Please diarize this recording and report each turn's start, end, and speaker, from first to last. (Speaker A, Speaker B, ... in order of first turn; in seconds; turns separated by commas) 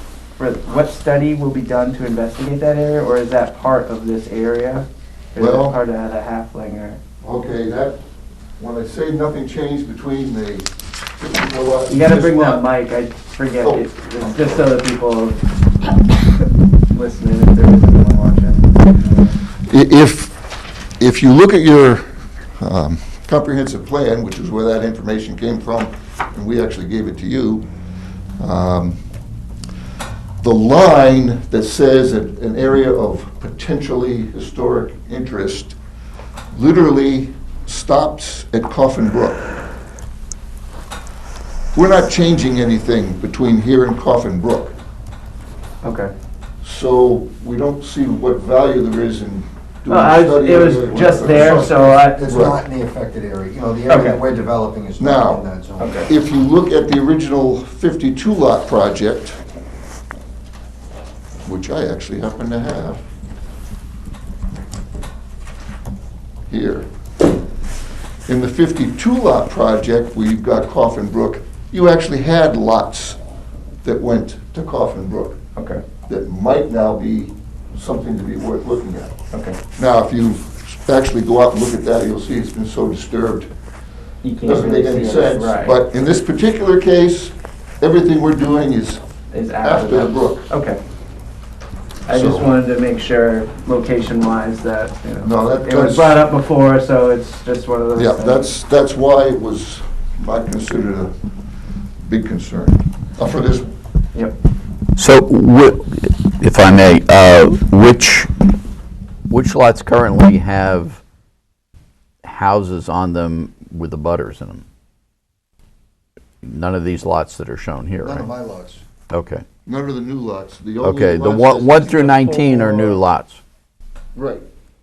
Speaker A: 0.4-7.0, Speaker B: 5.4-5.8, Speaker B: 7.2-8.0, Speaker B: 8.6-12.7, Speaker A: 11.9-16.3, Speaker B: 13.6-14.7, Speaker A: 16.8-19.4, Speaker B: 19.7-20.4, Speaker B: 21.0-27.7, Speaker B: 28.4-29.0, Speaker B: 30.4-35.8, Speaker B: 36.5-39.5, Speaker B: 41.7-44.8, Speaker A: 45.8-46.1, Speaker B: 46.6-52.6, Speaker A: 49.9-52.3, Speaker C: 51.2-56.1, Speaker A: 53.9-54.2, Speaker B: 55.0-55.5, Speaker A: 55.8-56.1, Speaker B: 56.1-59.4, Speaker B: 61.5-63.0, Speaker B: 66.5-66.9, Speaker B: 68.3-73.2, Speaker B: 73.8-75.4, Speaker A: 75.6-75.8, Speaker B: 76.1-79.2, Speaker A: 79.3-79.6, Speaker B: 79.7-83.5, Speaker A: 84.2-85.8, Speaker B: 84.4-89.0, Speaker A: 89.3-90.8, Speaker B: 89.6-90.5, Speaker A: 92.1-98.5, Speaker B: 92.1-92.5, Speaker B: 95.2-96.2, Speaker B: 97.9-101.1, Speaker B: 102.0-103.7, Speaker D: 105.0-108.3, Speaker D: 109.3-111.0, Speaker D: 112.2-114.6, Speaker D: 116.4-118.3, Speaker C: 118.0-118.8, Speaker D: 119.1-119.4, Speaker B: 119.7-122.3, Speaker D: 120.8-123.4, Speaker A: 121.8-123.0, Speaker B: 124.1-124.5